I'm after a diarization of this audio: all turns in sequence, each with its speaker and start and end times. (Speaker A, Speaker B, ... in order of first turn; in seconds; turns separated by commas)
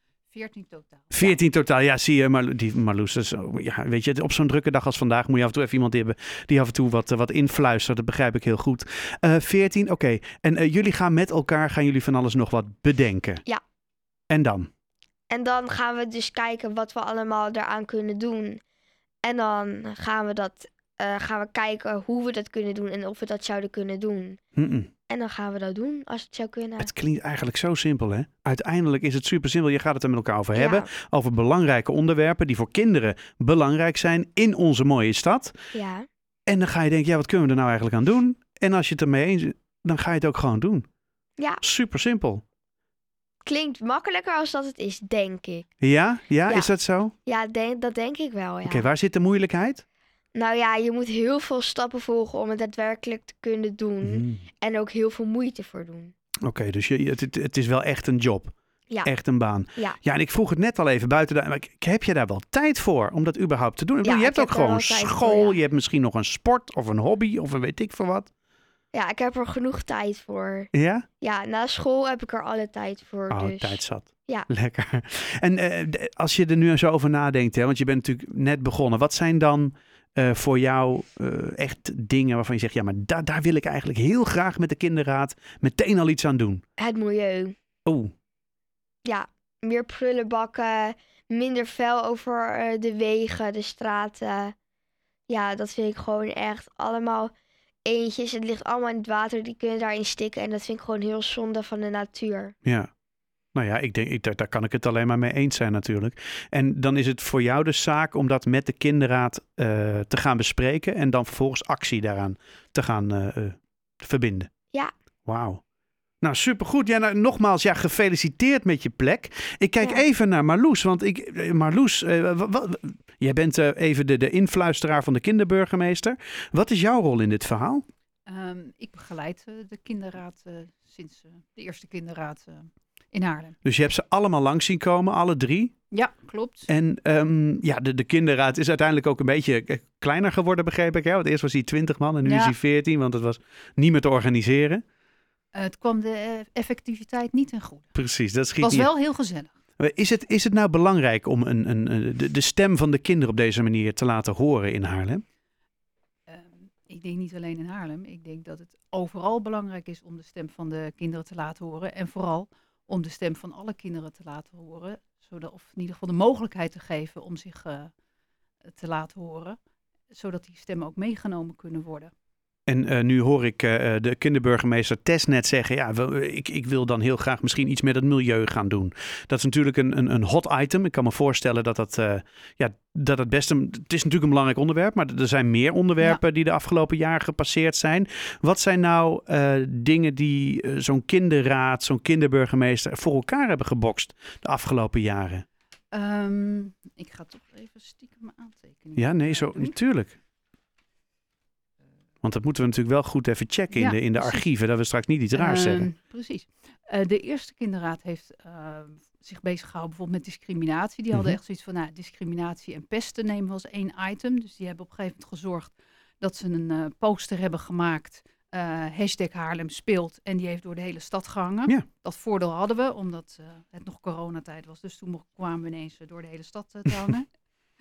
Speaker A: 0.3-1.1, Speaker B: 1.1-13.4, Speaker B: 14.3-14.7, Speaker C: 15.3-18.6, Speaker C: 19.2-24.4, Speaker B: 24.6-24.9, Speaker C: 25.1-26.9, Speaker B: 26.8-35.6, Speaker C: 30.6-30.9, Speaker C: 35.7-36.1, Speaker B: 36.5-40.9, Speaker B: 41.6-42.4, Speaker C: 43.4-45.7, Speaker B: 45.8-47.1, Speaker C: 47.3-48.9, Speaker B: 48.6-49.8, Speaker C: 50.3-56.1, Speaker B: 54.0-54.5, Speaker B: 56.5-68.3, Speaker C: 64.0-65.6, Speaker C: 68.9-70.7, Speaker B: 70.7-71.1, Speaker C: 71.2-74.5, Speaker B: 73.3-86.6, Speaker C: 86.8-87.5, Speaker B: 87.9-88.1, Speaker C: 89.0-94.5, Speaker C: 95.3-97.3, Speaker C: 97.8-102.5, Speaker B: 102.6-102.9, Speaker B: 103.5-114.5, Speaker B: 115.3-115.6, Speaker B: 116.2-127.8, Speaker A: 128.3-133.6, Speaker B: 133.6-135.7, Speaker A: 135.9-136.7, Speaker B: 136.7-144.8, Speaker A: 142.2-142.6, Speaker A: 145.5-147.9, Speaker B: 147.9-148.9, Speaker A: 148.6-149.5, Speaker B: 149.8-155.2, Speaker A: 156.3-167.9, Speaker A: 168.7-169.6, Speaker A: 170.1-172.1, Speaker B: 172.7-195.4, Speaker A: 195.9-199.8, Speaker B: 199.0-200.2, Speaker B: 202.2-205.9, Speaker A: 203.7-204.5, Speaker A: 205.3-227.3, Speaker B: 211.1-211.4